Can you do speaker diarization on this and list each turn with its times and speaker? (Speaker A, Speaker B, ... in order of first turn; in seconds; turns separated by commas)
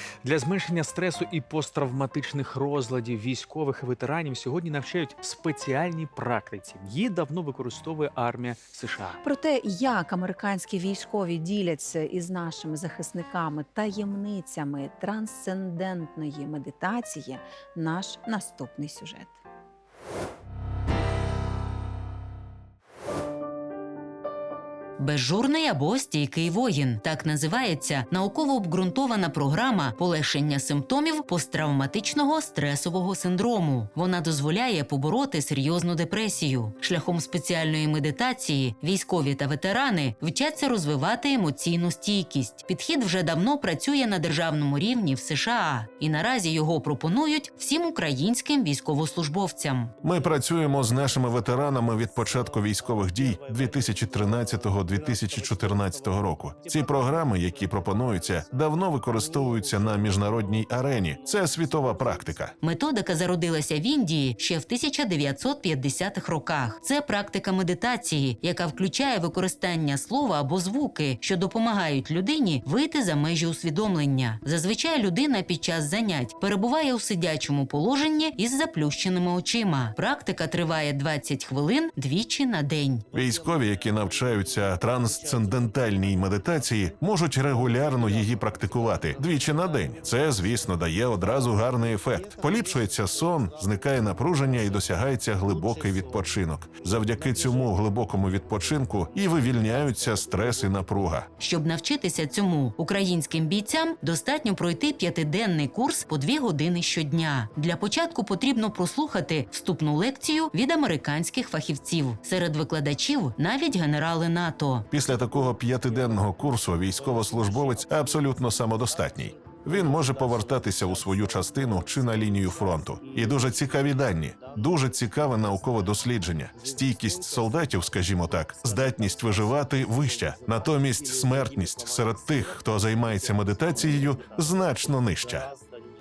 Speaker A: 0.2-9.2, Speaker B: 9.2-19.4, Speaker C: 25.0-49.9, Speaker D: 50.0-62.5, Speaker C: 62.6-83.0, Speaker D: 83.1-101.3, Speaker C: 101.4-114.8, Speaker D: 114.9-135.5